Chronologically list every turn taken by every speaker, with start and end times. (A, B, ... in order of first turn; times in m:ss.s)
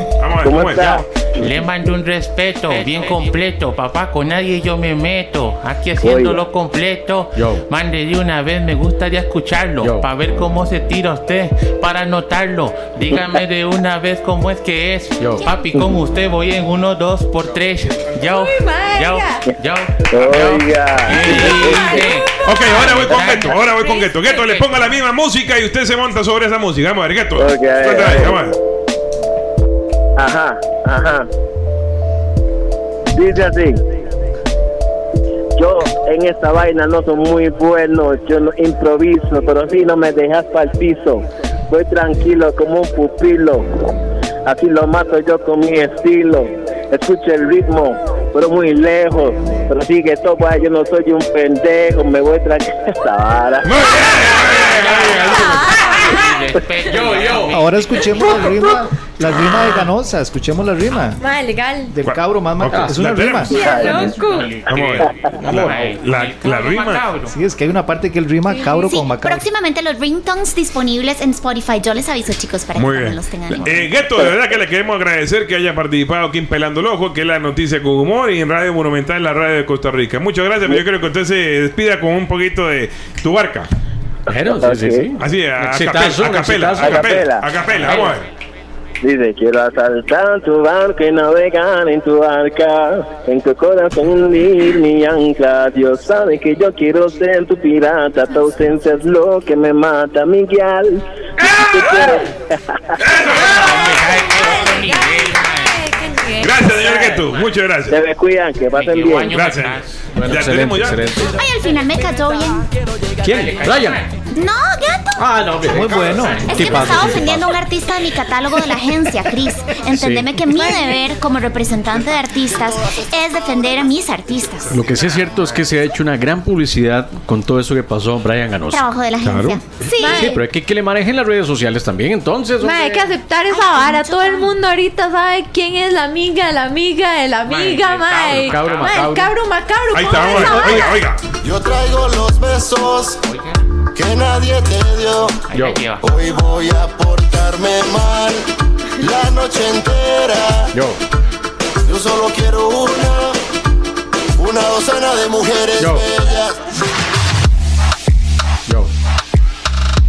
0:00.2-0:01.0 A
0:00.4-0:01.6 B
0:00.8-0:23.6 C
0:06.0-0:06.4 B
0:07.4-0:07.6 D
0:09.8-0:10.1 D
0:15.2-0:15.4 D
0:18.3-0:19.4 E
0:20.1-0:22.1 B
0:21.6-0:22.7 E
0:22.4-0:28.6 A
0:23.1-0:23.5 B
0:23.7-0:24.6 E
0:27.4-0:28.4 B
0:30.2-0:31.3 B
0:33.1-0:33.8 B
0:35.6-0:43.7 B
0:44.5-0:53.7 B
0:53.6-0:55.6 A
0:54.1-0:58.7 C
0:55.3-0:56.4 E
0:56.9-0:57.5 D
0:57.5-1:01.2 F
0:58.2-0:58.7 E
1:01.2-1:01.9 E
1:01.9-1:03.6 F
1:02.0-1:04.1 A
1:03.5-1:04.5 E
1:03.5-1:04.0 B
1:03.8-1:07.4 C
1:04.7-1:07.1 A
1:05.5-1:05.7 D
1:07.3-1:09.4 F
1:08.5-1:08.9 E
1:08.6-1:14.0 G
1:12.7-1:23.7 A
1:14.0-1:14.4 B
1:24.3-1:27.2 D
1:24.4-1:25.1 B
1:25.2-1:28.3 A
1:26.7-1:27.5 B
1:27.8-1:28.1 C
1:29.0-1:42.9 B
1:41.4-1:42.2 A
1:43.0-1:44.0 A
1:43.3-1:45.8 C
1:44.4-1:46.6 E
1:46.4-1:48.0 A
1:46.6-1:47.5 C
1:47.9-1:49.4 B
1:48.7-1:49.9 C
1:49.3-1:51.1 A
1:50.1-1:51.4 D
1:51.3-1:52.6 G
1:53.2-1:54.0 D
1:53.3-1:54.1 C
1:54.3-1:55.3 G
1:55.2-1:57.5 D
1:55.7-1:56.5 F
1:55.7-1:57.2 H
1:56.2-1:57.0 C
1:56.5-2:04.8 G
1:59.9-2:00.3 D
2:00.6-2:01.0 E
2:02.3-2:03.8 H
2:04.7-2:08.9 D
2:05.0-2:05.7 C
2:08.7-2:10.2 G
2:09.2-2:09.6 A
2:09.8-2:10.4 E
2:10.1-2:13.1 D
2:12.6-2:21.1 E
2:13.5-2:14.6 G
2:17.4-2:19.0 C
2:18.2-2:19.3 D
2:19.9-2:21.3 A
2:21.4-2:23.2 H
2:23.2-2:23.6 C
2:23.9-2:25.5 H
2:25.5-2:26.1 C
2:25.5-2:25.8 D
2:26.0-2:28.4 H
2:29.0-2:30.8 H
2:31.9-2:33.4 H
2:34.4-2:36.6 H
2:35.8-2:36.1 D